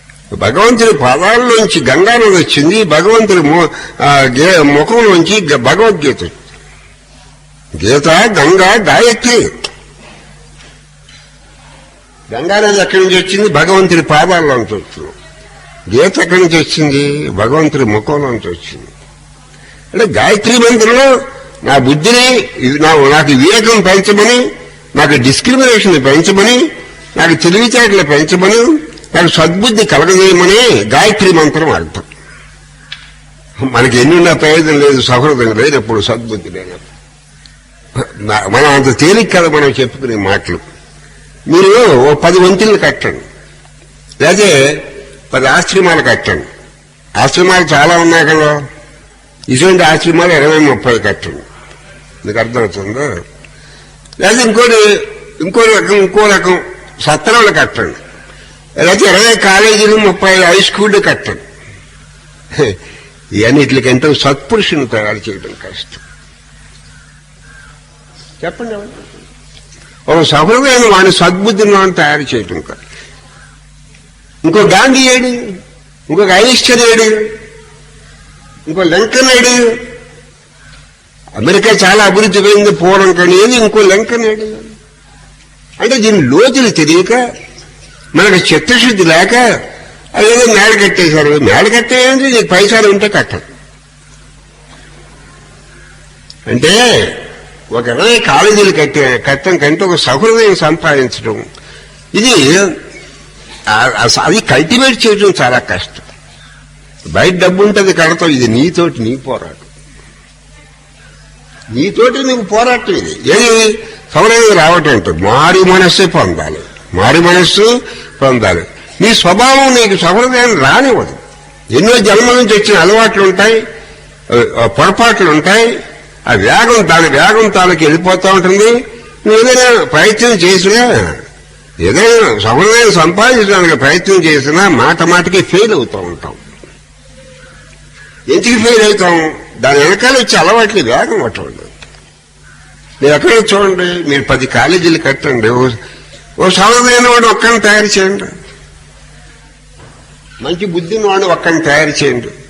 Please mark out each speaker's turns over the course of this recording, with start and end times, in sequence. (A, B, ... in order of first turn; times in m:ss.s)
0:00.4-0:06.4 A
0:07.8-0:09.5 A
0:12.3-0:15.1 A
0:15.9-0:18.9 A
0:19.9-0:21.1 A
0:21.6-0:24.4 A
0:25.0-0:26.6 A
0:27.2-0:32.1 A
0:33.6-0:36.9 A
0:38.0-0:40.6 A
0:41.5-0:43.2 A
0:44.2-0:46.5 A
0:47.2-0:48.6 A
0:49.5-0:51.4 A
0:52.2-0:53.2 A
0:54.2-0:58.0 A
0:58.8-1:01.4 A
1:03.4-1:06.0 A
1:08.4-1:09.2 A
1:10.1-1:12.8 A
1:14.4-1:15.4 A
1:16.1-1:17.3 A
1:18.7-1:19.7 A
1:21.4-1:24.7 A
1:25.8-1:27.2 A
1:28.2-1:29.4 A
1:30.2-1:33.4 A
1:36.5-1:37.2 A
1:37.7-1:41.4 A
1:42.2-1:42.8 A
1:43.7-1:46.0 A
1:47.1-1:49.7 A
1:51.7-2:01.2 A
2:01.7-2:03.6 A
2:04.3-2:05.7 A
2:06.3-2:11.2 A
2:11.8-2:16.4 A
2:18.3-2:21.7 A
2:23.0-2:25.8 A
2:26.4-2:28.3 A
2:30.4-2:32.3 A